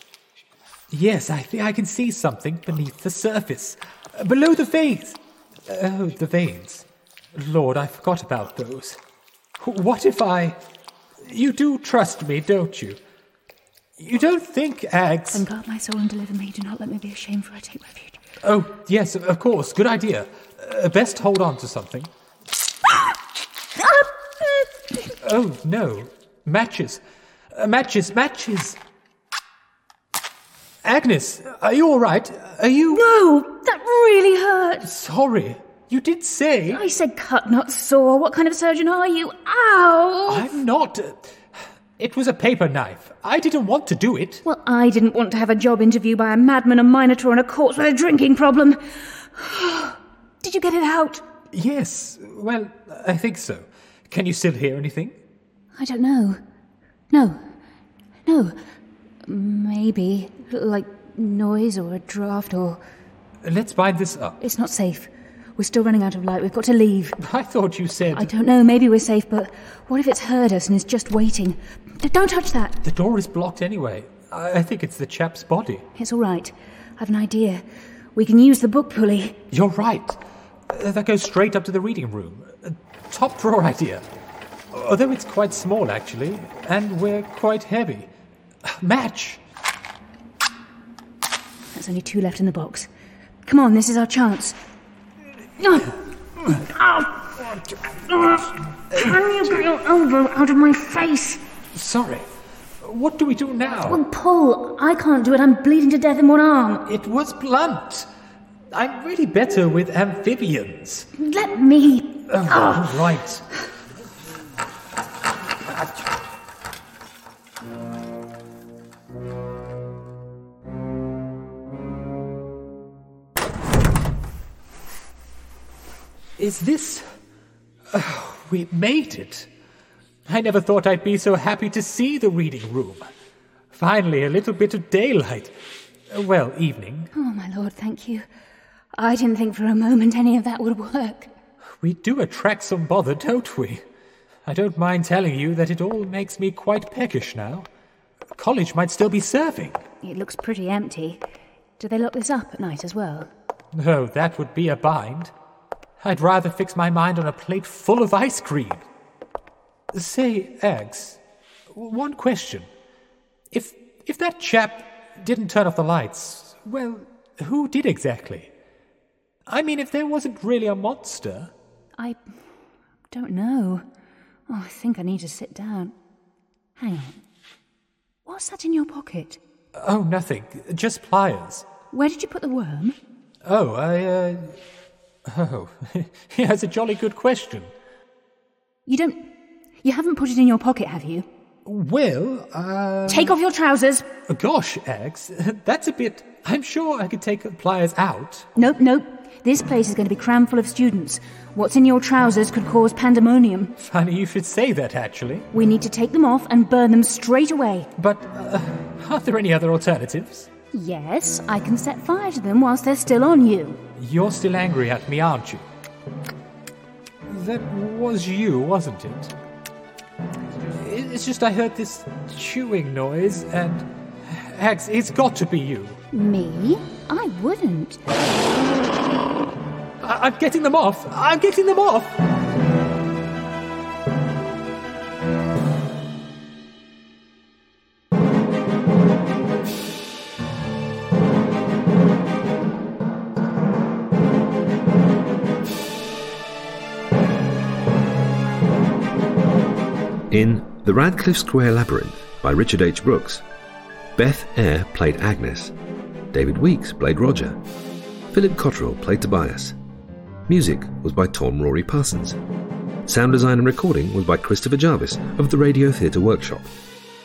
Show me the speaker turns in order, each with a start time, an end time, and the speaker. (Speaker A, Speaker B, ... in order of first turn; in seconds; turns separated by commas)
Speaker A: 0.9-9.0, Speaker A: 9.6-10.6, Speaker A: 11.2-13.0, Speaker A: 14.0-15.4, Speaker B: 15.3-18.2, Speaker A: 18.4-22.1, Speaker B: 23.8-25.0, Speaker A: 25.2-27.0, Speaker A: 27.5-28.8, Speaker A: 30.8-33.0, Speaker B: 32.9-34.9, Speaker A: 34.8-36.8, Speaker B: 36.7-40.5, Speaker A: 40.3-41.4, Speaker A: 42.0-44.4, Speaker B: 44.4-51.2, Speaker A: 51.5-55.2, Speaker B: 55.7-56.4, Speaker B: 57.1-57.4, Speaker B: 58.2-58.6, Speaker B: 59.2-62.8, Speaker A: 63.4-64.4, Speaker B: 64.4-67.2, Speaker A: 67.2-68.3, Speaker B: 68.1-72.8, Speaker A: 72.8-75.8, Speaker B: 76.0-77.6, Speaker B: 78.1-79.4, Speaker A: 79.5-84.0, Speaker A: 84.7-88.1, Speaker A: 88.6-89.4, Speaker B: 91.7-92.9, Speaker B: 93.4-94.6, Speaker B: 95.6-97.3, Speaker A: 97.5-98.0, Speaker B: 98.1-101.4, Speaker A: 98.9-99.2, Speaker A: 101.7-102.3, Speaker A: 102.8-104.0, Speaker B: 103.8-106.9, Speaker A: 106.8-108.1, Speaker A: 108.7-111.1, Speaker B: 111.2-113.0, Speaker A: 112.3-113.4, Speaker A: 126.4-127.1, Speaker A: 127.9-129.5, Speaker A: 130.3-133.1, Speaker A: 133.7-135.5, Speaker A: 136.1-137.1, Speaker B: 137.1-138.3, Speaker B: 138.9-141.3, Speaker A: 141.8-143.8, Speaker A: 144.4-147.7, Speaker A: 148.3-149.8, Speaker B: 150.0-151.2, Speaker B: 151.8-153.3, Speaker A: 153.7-155.3, Speaker A: 156.0-158.8, Speaker A: 159.9-161.2, Speaker A: 161.7-162.7, Speaker A: 163.5-168.5, Speaker A: 169.5-171.5, Speaker B: 173.1-173.8, Speaker B: 174.5-175.9, Speaker B: 176.8-177.2, Speaker B: 178.2-179.4, Speaker A: 179.8-181.7, Speaker B: 181.9-183.0, Speaker A: 183.4-184.6, Speaker A: 185.2-187.7, Speaker B: 188.9-189.3, Speaker B: 189.8-191.2, Speaker A: 191.6-193.3, Speaker B: 193.1-194.1, Speaker A: 194.2-198.5, Speaker B: 198.6-203.8, Speaker A: 203.8-205.5, Speaker B: 205.5-207.9, Speaker A: 207.9-210.5, Speaker B: 210.7-213.8, Speaker A: 214.0-215.6, Speaker A: 217.3-219.3, Speaker A: 220.7-226.0, Speaker B: 226.1-228.0, Speaker A: 230.0-232.2, Speaker C: 250.3-253.4, Speaker C: 254.2-255.7, Speaker C: 256.3-257.6, Speaker C: 258.3-259.8, Speaker C: 260.5-262.4, Speaker C: 263.1-266.7